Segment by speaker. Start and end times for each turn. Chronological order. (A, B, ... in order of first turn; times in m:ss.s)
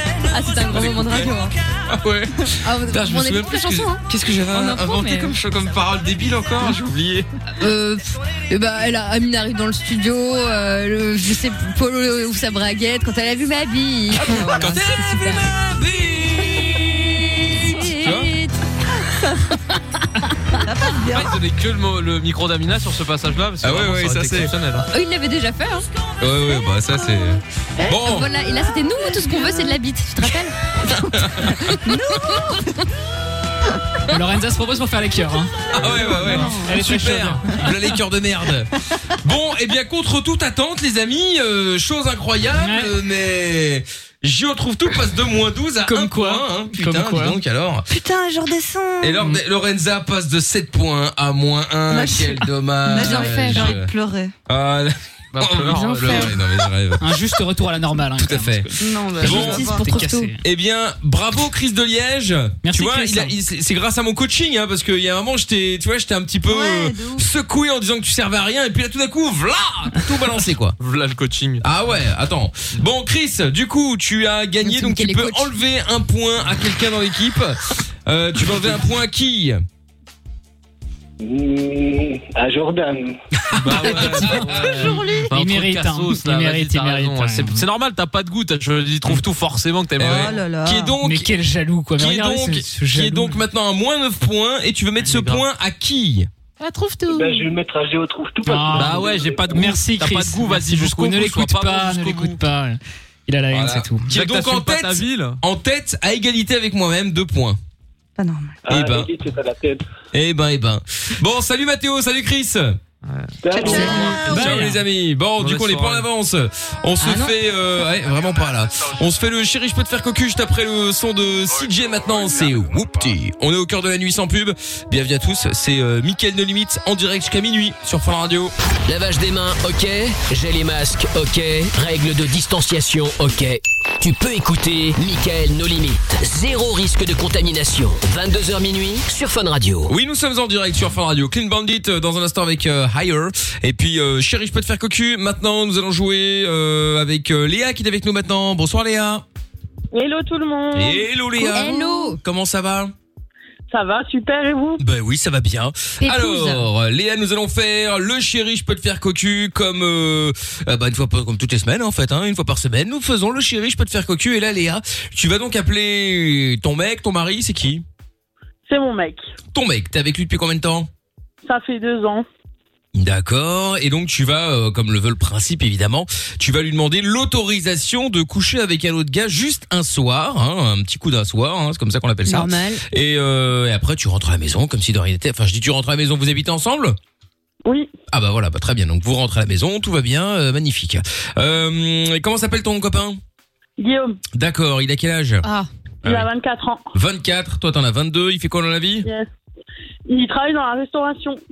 0:00.3-0:01.5 A
0:00.6-0:01.3 B
0:01.9-0:07.3 B
0:02.5-0:05.4 A
0:07.6-0:15.5 A
0:14.2-0:18.3 B
0:17.5-0:18.6 A
0:20.6-0:21.4 C
0:21.1-0:24.9 D
0:23.6-0:24.5 B
0:24.8-0:25.9 A
0:26.2-0:28.3 B
0:27.9-0:30.6 A
0:29.0-0:29.8 C
0:30.9-0:32.5 C
0:31.1-0:31.7 B
0:31.8-0:32.5 A
0:34.1-0:35.5 E
0:35.7-0:47.9 B
0:35.8-0:36.8 C
0:36.2-0:37.6 E
0:42.6-0:42.9 E
0:45.9-0:47.4 E
0:47.9-0:49.3 C
0:49.0-0:53.9 B
0:51.9-0:54.3 C
0:52.9-0:53.7 A
0:54.5-0:57.0 B
0:55.3-0:56.3 D
0:56.0-0:56.3 C
0:57.0-1:00.4 E
0:58.2-0:59.8 B
0:58.8-1:00.0 C
0:59.3-1:00.3 A
1:00.4-1:10.8 B
1:02.6-1:03.4 E
1:06.5-1:07.3 C
1:10.8-1:11.6 D
1:11.6-1:19.6 B
1:14.6-1:15.5 A
1:21.4-1:22.2 F
1:23.5-1:30.4 D
1:23.6-1:25.0 B
1:24.6-1:25.3 C
1:25.3-1:27.6 E
1:30.0-1:30.9 C
1:30.0-1:31.4 B
1:31.0-1:33.4 E
1:32.0-1:36.3 B
1:35.0-1:35.4 D
1:36.6-1:37.5 D
1:37.1-1:39.5 F
1:38.4-1:44.1 E
1:38.7-1:42.4 D
1:43.5-1:47.6 B
1:44.1-1:45.4 D
1:48.2-1:48.6 C
1:48.7-1:49.1 B
1:48.7-1:49.7 F
1:50.1-1:52.8 B
1:53.0-1:54.7 D
1:53.5-1:54.0 F
1:53.5-1:54.3 C
1:54.1-1:54.8 E
1:54.2-2:08.5 B
1:55.4-1:56.0 D
1:57.0-1:57.3 A
2:08.9-2:19.9 G
2:19.9-2:29.2 B
2:29.9-2:31.1 H
2:30.7-2:32.9 B
2:31.4-2:32.2 A
2:33.7-2:34.8 H
2:34.8-2:47.8 B
2:36.0-2:36.7 A
2:48.7-2:49.2 H
2:49.5-2:50.9 B
2:51.4-2:52.3 H
2:53.0-3:07.0 B
3:02.3-3:02.8 A
3:07.6-3:07.9 H
3:08.1-3:13.2 B
3:13.8-3:14.2 H
3:14.3-3:15.4 B
3:15.4-3:15.7 A
3:16.0-3:16.9 H
3:16.9-3:19.1 B
3:19.0-3:19.3 H
3:20.1-3:21.4 H